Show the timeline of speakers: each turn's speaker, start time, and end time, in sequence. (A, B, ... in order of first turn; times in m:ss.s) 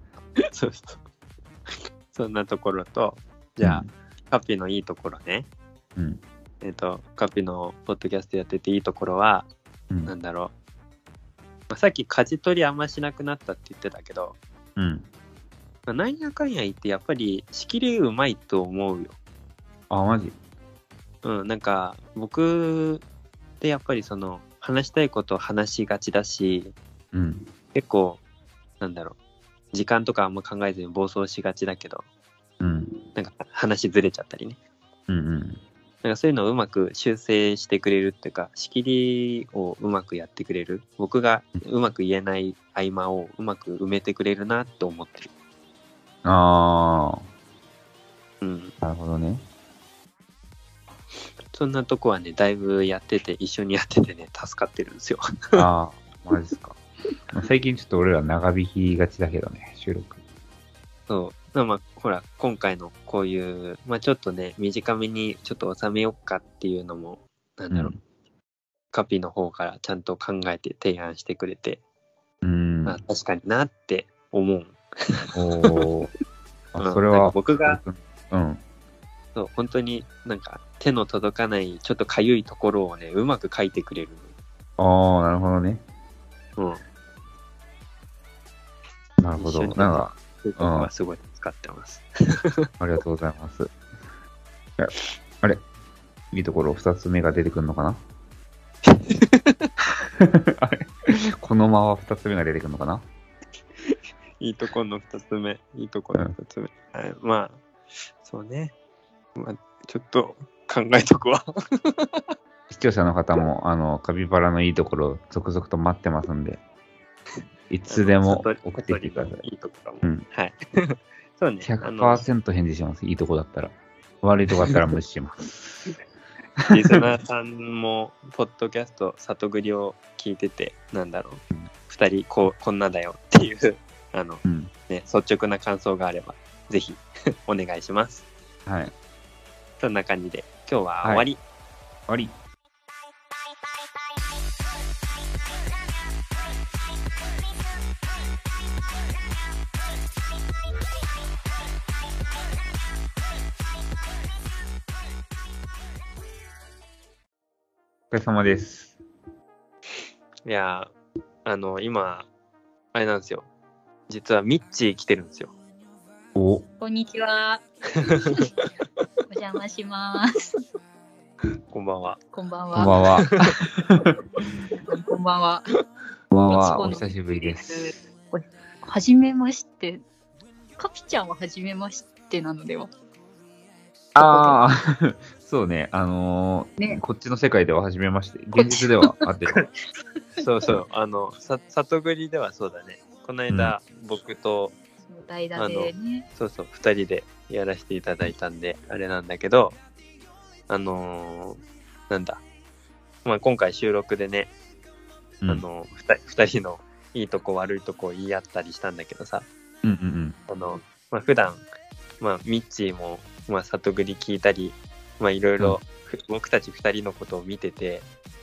0:00.4-0:01.0 A
0:01.7-0:05.5 A
0:03.6-0:03.9 B
0:06.0-0:06.2 B
0:06.6-0:09.5 A
0:10.1-0:10.5 A
0:11.7-0:14.4 A
0:14.8-0:15.0 B
0:15.9-0:19.2 A
0:19.9-0:20.4 B
0:21.2-0:23.0 A
0:23.6-0:26.8 A
0:27.1-0:27.5 B
0:27.7-0:28.2 A
0:28.8-0:29.2 A
0:29.7-0:32.0 A
0:32.6-0:33.0 B
0:33.2-0:34.6 A
0:35.1-0:35.6 B
0:36.0-0:45.3 A
0:46.2-0:47.2 B
0:48.4-0:48.7 A
0:48.8-0:49.4 B
0:51.5-0:55.7 A
0:55.6-0:56.8 B
0:57.3-1:00.2 B
1:01.1-1:08.0 A
1:07.7-1:08.0 B
1:08.9-1:11.8 A
1:12.4-1:13.0 B
1:12.9-1:15.9 A
1:15.3-1:16.1 B
1:16.7-1:18.6 B
1:16.8-1:17.8 A
1:19.4-1:24.3 A
1:24.8-1:25.8 B
1:26.6-1:26.8 A
1:29.2-1:30.9 B
1:29.4-1:32.7 A
1:32.8-1:33.7 B
1:34.8-1:35.6 B
1:36.3-1:38.0 B
1:38.8-1:39.7 A
1:40.0-1:43.0 B
1:43.9-1:47.6 A
1:48.2-1:48.7 A
1:49.4-1:52.2 A
1:52.7-1:56.6 B
1:57.7-1:59.4 B
1:57.9-2:02.2 A
2:01.6-2:05.9 B
2:06.6-2:07.0 B
2:06.7-2:18.3 A
2:14.4-2:14.7 B
2:18.7-2:18.9 B
2:19.8-2:21.4 A
2:22.1-2:22.3 B
2:38.1-2:39.0 B
2:40.4-2:40.9 A
2:41.4-2:42.3 A
2:42.9-2:43.5 A
2:44.1-2:45.5 A
2:46.4-2:46.7 B
2:46.8-2:48.5 C
2:48.0-2:48.5 A
2:49.3-2:50.6 C
2:51.7-2:52.2 A
2:52.3-2:53.0 C
2:52.8-2:54.2 B
2:52.8-2:53.6 A
2:54.9-2:55.6 C
2:56.3-2:57.9 B
2:56.5-3:00.0 C
3:00.8-3:02.9 C
3:04.2-3:09.6 B
3:04.2-3:04.6 C
3:08.5-3:09.2 C
3:10.4-3:14.8 A
3:15.0-3:16.3 C
3:15.6-3:19.8 A
3:20.7-3:22.4 A
3:23.2-3:24.5 A
3:25.5-3:29.5 A
3:29.8-3:30.4 B
3:30.5-3:31.6 A
3:32.2-3:38.1 A